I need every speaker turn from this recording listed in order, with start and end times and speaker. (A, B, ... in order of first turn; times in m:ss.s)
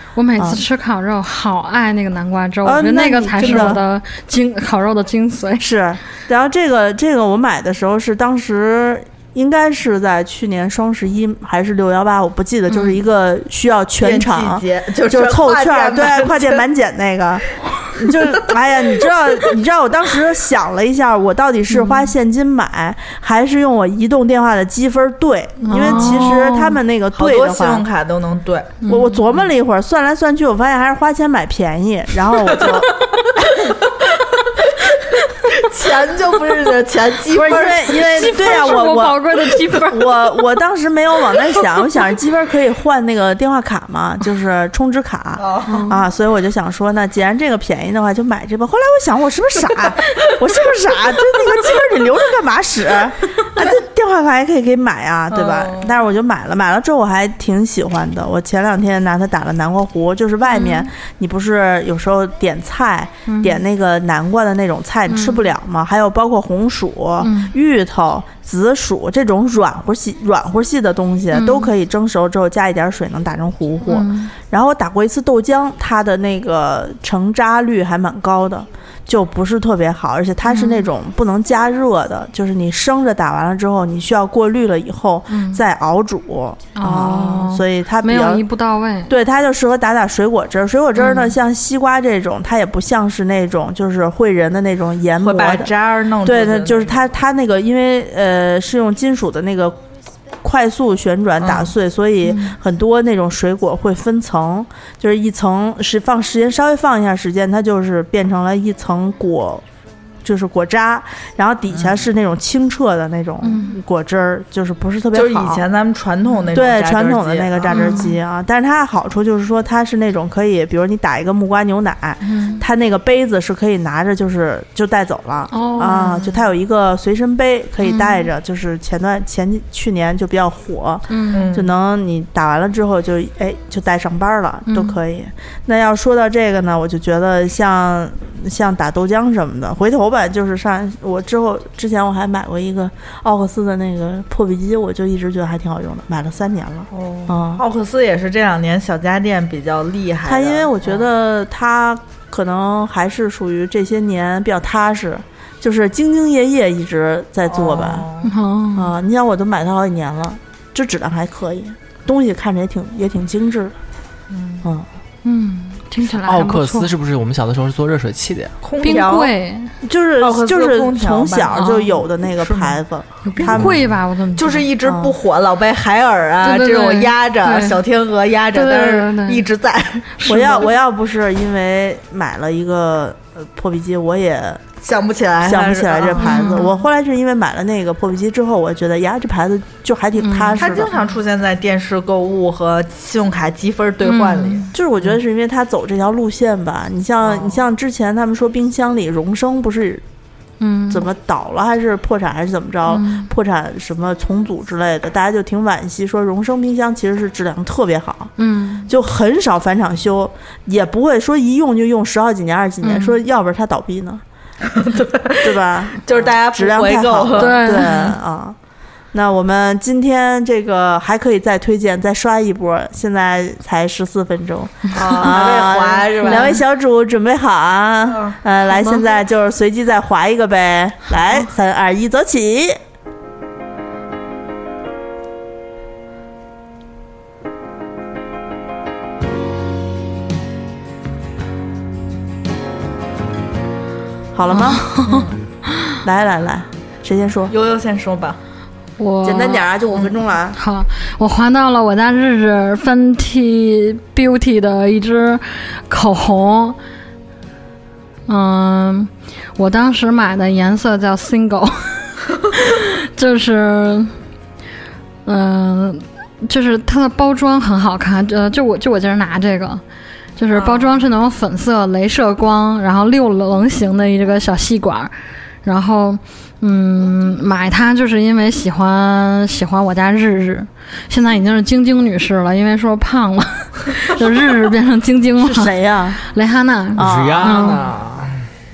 0:00.2-0:05.6 A
0:02.6-0:03.8 B
0:05.6-0:27.8 B
0:12.7-0:13.0 A
0:14.0-0:16.6 C
0:21.7-0:22.1 A
0:25.6-0:26.8 A
0:25.8-0:26.3 C
0:27.2-0:28.8 C
0:28.8-0:29.2 A
0:28.9-0:33.0 B
0:35.4-0:38.8 C
0:37.3-1:28.4 B
0:37.9-0:40.2 A
0:45.4-0:45.9 C
0:45.7-0:46.0 A
0:55.3-0:56.0 C
1:00.5-1:00.9 A
1:03.3-1:03.6 A
1:05.1-1:05.5 A
1:07.2-1:07.5 A
1:11.3-1:11.7 A
1:13.9-1:14.3 A
1:20.4-1:20.9 A
1:25.3-1:25.6 A
1:26.8-1:29.1 A
1:29.1-1:39.8 B
1:31.0-1:31.3 A
1:35.2-1:37.0 C
1:40.4-1:49.6 B
1:41.4-1:41.7 C
1:42.2-1:42.6 A
1:50.2-1:55.6 B
1:53.4-1:53.8 A
1:55.1-1:58.0 C
1:56.5-2:27.6 B
1:57.7-1:58.2 A
2:02.2-2:02.6 A
2:05.5-2:06.3 A
2:07.8-2:08.3 A
2:11.1-2:11.5 A
2:11.3-2:11.7 C
2:14.7-2:15.0 A
2:26.9-2:31.0 C
2:30.2-2:38.1 B
2:37.5-2:38.3 C
2:38.2-2:38.9 A
2:38.8-2:43.8 B
2:44.3-2:44.6 C
2:45.2-2:46.9 A
2:46.2-2:48.6 D
2:48.6-2:49.3 C
2:48.8-2:49.7 A
2:49.8-2:53.8 B
2:50.2-2:51.6 C
2:51.5-2:52.0 A
2:52.4-2:52.8 C
2:53.2-2:54.7 A
2:54.4-3:00.7 C
2:54.8-2:55.2 B
2:56.4-2:57.8 A
2:58.5-2:59.4 A
3:00.2-3:00.6 A
3:00.2-3:04.6 B
3:04.8-3:06.6 C
3:05.4-3:10.9 B
3:06.2-3:06.8 A
3:10.2-3:10.8 A
3:10.6-3:15.1 C
3:14.0-3:14.7 A
3:14.7-3:20.0 B
3:17.2-3:17.6 C
3:20.6-3:21.0 A
3:20.9-3:28.3 B
3:22.9-3:23.3 A
3:28.4-3:28.9 A
3:28.9-3:34.2 B
3:32.8-3:33.2 A
3:34.7-3:37.9 C
3:35.4-3:38.6 B
3:37.4-3:38.1 A
3:39.1-3:52.8 B
3:44.9-3:46.6 C
3:46.2-3:46.6 A
3:48.1-3:48.4 C
4:04.3-4:05.0 B
4:04.5-4:05.3 A
4:05.1-4:05.3 C
4:06.0-4:07.5 B
4:07.5-4:08.4 C
4:09.0-4:16.8 A
4:09.2-4:10.6 B
4:18.3-4:24.1 A
4:25.3-4:29.8 A
4:30.4-4:35.1 A
4:30.5-4:31.0 C
4:35.6-4:47.9 A
4:45.4-4:46.2 B
4:47.0-4:47.8 B
4:47.0-4:48.5 D